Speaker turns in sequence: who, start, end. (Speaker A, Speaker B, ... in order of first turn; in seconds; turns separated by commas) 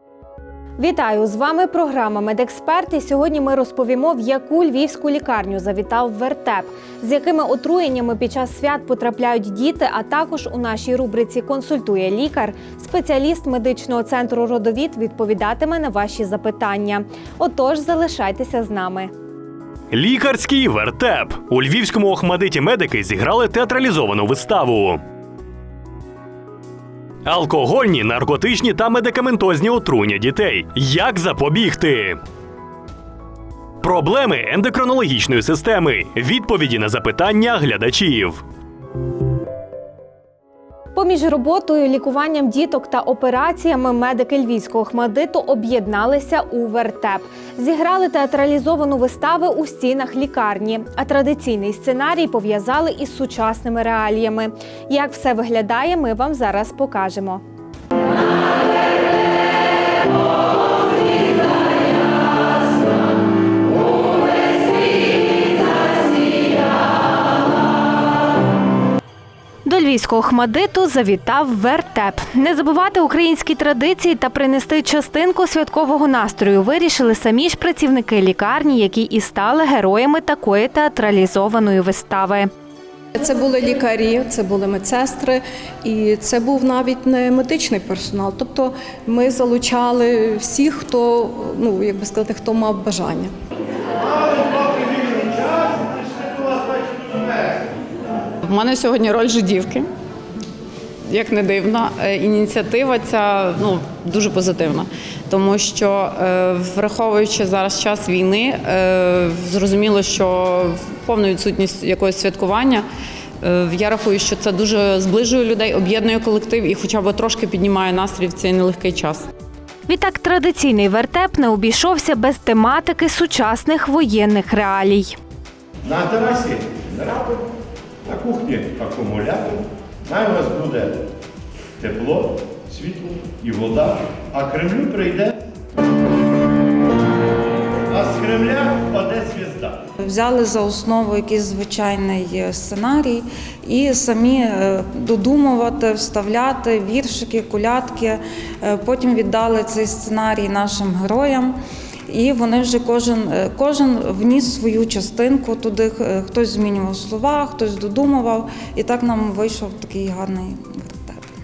Speaker A: 0.8-19.1, Speaker B: 19.9-25.0, Speaker B: 27.2-32.2, Speaker B: 33.8-38.4, Speaker A: 41.0-57.4, Speaker A: 69.7-82.5, Speaker C: 83.2-93.3, Speaker D: 98.4-99.9, Speaker D: 101.1-112.9, Speaker D: 113.4-119.3, Speaker A: 119.9-125.2, Speaker E: 125.9-127.2, Speaker E: 128.1-131.1, Speaker E: 131.8-135.4, Speaker E: 137.9-139.8, Speaker F: 140.0-161.2